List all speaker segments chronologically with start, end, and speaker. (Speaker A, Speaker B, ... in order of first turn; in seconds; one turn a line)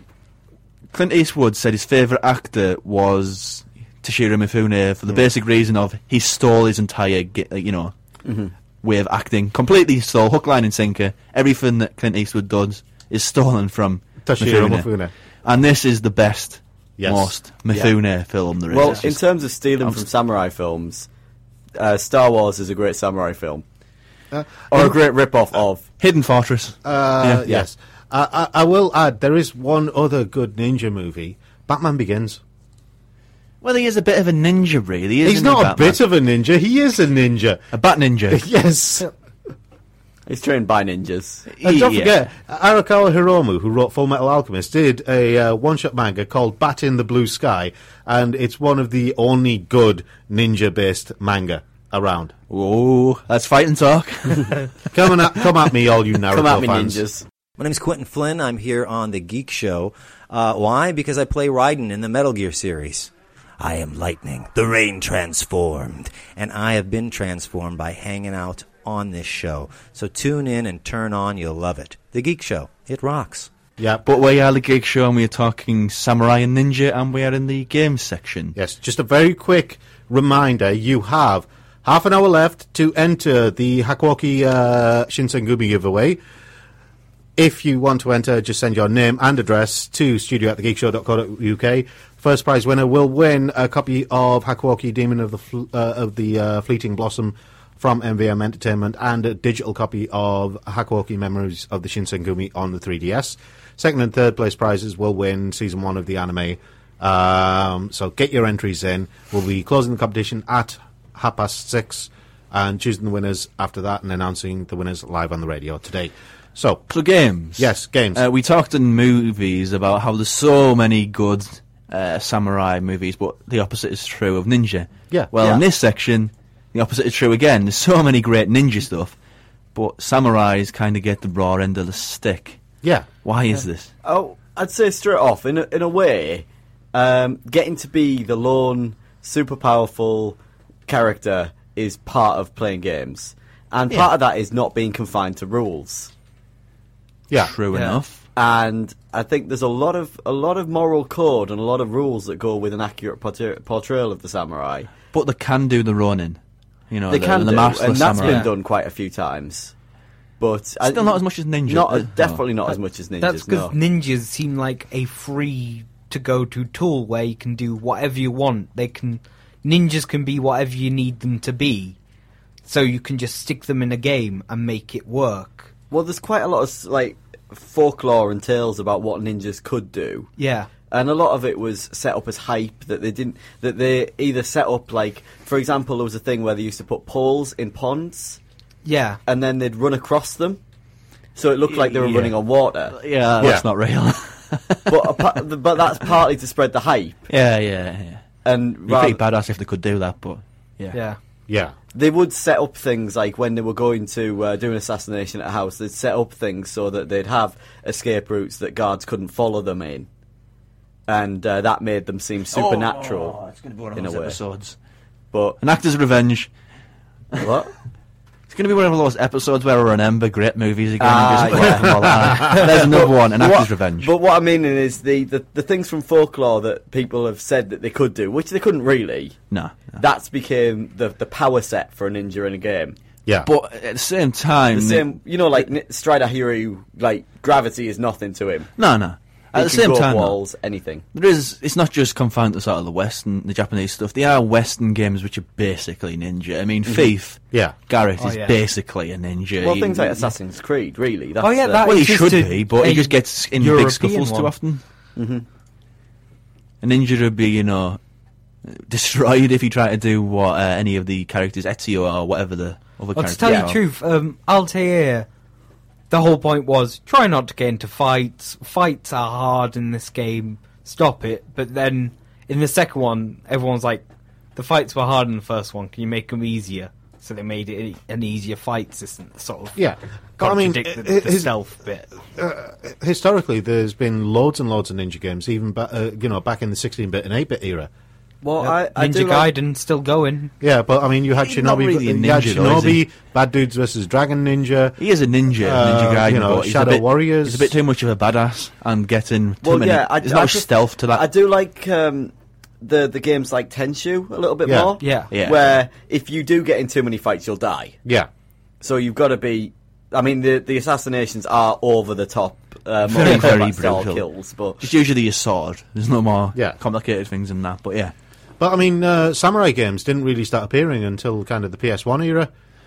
Speaker A: 0.9-7.9
Speaker B: 8.2-8.5
Speaker A: 8.8-14.8
Speaker C: 14.2-15.1
Speaker A: 15.4-19.2
Speaker C: 17.0-17.3
Speaker B: 18.7-21.1
Speaker B: 21.8-23.6
Speaker C: 24.3-24.9
Speaker B: 24.7-25.8
Speaker A: 26.0-27.4
Speaker C: 26.8-32.4
Speaker A: 33.6-36.0
Speaker C: 35.2-37.6
Speaker A: 37.7-38.4
Speaker C: 38.3-39.1
Speaker B: 40.3-41.5
Speaker A: 41.5-42.1
Speaker C: 41.6-52.3
Speaker A: 52.5-54.6
Speaker C: 54.9-57.0
Speaker B: 56.3-57.2
Speaker D: 57.6-73.5
Speaker C: 73.8-74.0
Speaker A: 74.0-78.5
Speaker C: 78.5-86.2
Speaker C: 87.3-116.8
Speaker A: 116.9-129.1
Speaker C: 117.6-118.2
Speaker A: 129.7-132.6
Speaker A: 133.2-133.9
Speaker B: 134.0-146.1
Speaker A: 147.3-148.2
Speaker E: 147.7-148.0
Speaker B: 148.3-154.9
Speaker A: 155.1-156.4
Speaker A: 156.9-158.5
Speaker B: 157.1-159.7
Speaker E: 158.2-158.5
Speaker B: 160.4-163.7
Speaker A: 160.8-162.4
Speaker E: 163.2-171.9
Speaker E: 172.6-175.7
Speaker B: 175.9-180.3
Speaker E: 180.4-180.7
Speaker B: 180.9-188.4
Speaker E: 188.8-189.2
Speaker B: 189.2-190.6
Speaker B: 191.3-192.9
Speaker A: 191.7-192.4
Speaker A: 192.9-195.4
Speaker C: 193.4-193.6
Speaker B: 194.9-197.3
Speaker A: 197.3-198.2
Speaker B: 198.4-199.2
Speaker A: 198.9-200.9
Speaker E: 200.9-201.2
Speaker C: 201.5-201.7
Speaker B: 201.9-210.1
Speaker B: 211.1-213.3
Speaker A: 212.5-214.7
Speaker B: 213.9-214.4
Speaker B: 215.3-215.6
Speaker A: 215.6-216.5
Speaker B: 217.4-217.7
Speaker A: 218.5-224.1
Speaker B: 221.0-229.4
Speaker A: 229.5-230.0
Speaker B: 230.0-232.9
Speaker A: 233.4-235.1
Speaker B: 234.7-238.7
Speaker A: 238.8-240.4
Speaker B: 239.6-241.0
Speaker A: 241.1-250.2
Speaker E: 248.2-248.6
Speaker B: 249.6-251.8
Speaker E: 251.4-254.5
Speaker A: 251.8-254.8
Speaker B: 255.2-255.4
Speaker A: 256.8-258.0
Speaker A: 258.7-263.8
Speaker E: 263.1-265.3
Speaker B: 263.4-263.7
Speaker E: 266.1-274.0
Speaker E: 274.6-279.8
Speaker C: 279.8-281.5
Speaker E: 280.4-282.1
Speaker C: 282.4-287.9
Speaker B: 288.4-289.5
Speaker E: 288.6-290.5
Speaker C: 290.6-295.0
Speaker A: 291.4-293.0
Speaker A: 295.0-301.3
Speaker C: 295.6-297.7
Speaker B: 299.6-308.0
Speaker C: 304.6-304.9
Speaker E: 305.0-305.3
Speaker A: 305.3-305.8
Speaker B: 308.8-314.8
Speaker A: 313.0-314.2
Speaker A: 314.8-318.1
Speaker C: 318.6-322.5